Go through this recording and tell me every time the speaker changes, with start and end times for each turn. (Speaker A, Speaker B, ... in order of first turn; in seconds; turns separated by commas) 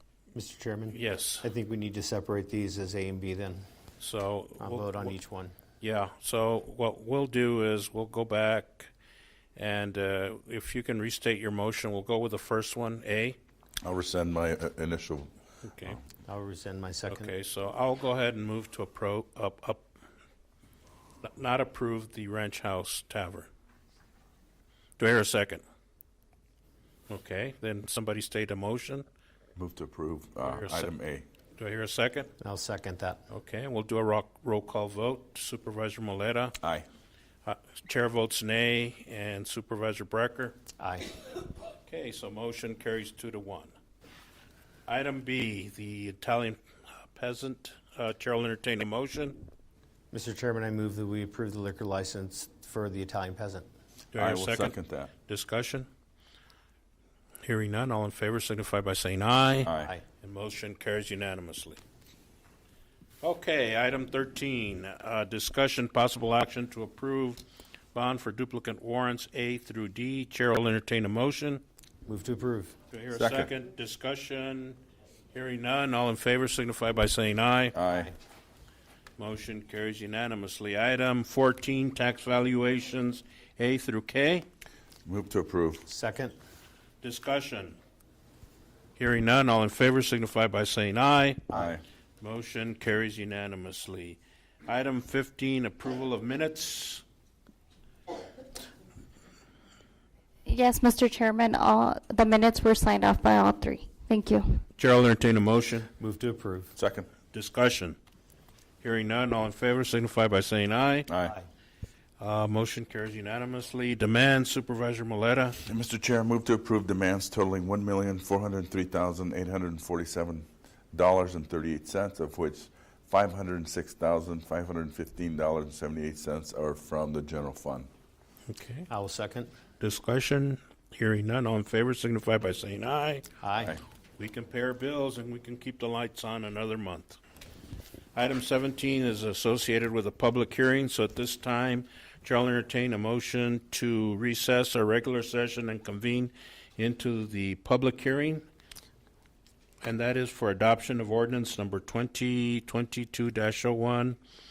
Speaker A: 0.3-3.7, Speaker B: 0.9-1.5, Speaker B: 4.0-5.1, Speaker A: 4.6-5.5, Speaker B: 5.8-8.9, Speaker B: 9.6-13.4, Speaker C: 13.8-15.3, Speaker B: 15.6-16.0, Speaker A: 16.3-17.3, Speaker B: 17.1-19.9, Speaker B: 21.2-23.5, Speaker B: 25.0-25.6, Speaker B: 27.1-29.1, Speaker C: 29.6-31.2, Speaker B: 30.4-30.9, Speaker B: 31.6-32.3, Speaker A: 32.4-33.2, Speaker B: 33.3-36.6, Speaker B: 37.5-40.6, Speaker A: 40.8-41.1, Speaker B: 41.8-43.7, Speaker B: 44.9-46.6, Speaker B: 47.1-49.4, Speaker A: 50.1-53.7, Speaker B: 54.1-55.9, Speaker C: 54.2-55.1, Speaker B: 57.4-61.8, Speaker C: 59.6-59.9, Speaker B: 63.2-67.4, Speaker B: 67.9-71.6, Speaker A: 72.1-72.8, Speaker B: 72.9-74.8, Speaker C: 73.2-73.4, Speaker B: 75.3-77.7, Speaker C: 77.8-78.1, Speaker B: 79.2-84.5, Speaker C: 85.1-85.8, Speaker A: 85.9-86.3, Speaker B: 87.0-87.8, Speaker B: 89.0-91.5, Speaker B: 92.2-97.0, Speaker D: 100.5-104.6, Speaker B: 104.8-105.9, Speaker A: 106.0-106.8, Speaker C: 106.8-107.0, Speaker B: 107.3-108.0, Speaker B: 108.8-111.1, Speaker B: 112.2-115.6, Speaker C: 115.7-120.4, Speaker C: 121.0-127.9, Speaker B: 128.5-128.9, Speaker A: 128.9-129.5, Speaker B: 129.8-133.3, Speaker A: 133.4-133.8, Speaker B: 134.2-137.2, Speaker B: 138.2-148.4, Speaker B: 149.8-154.2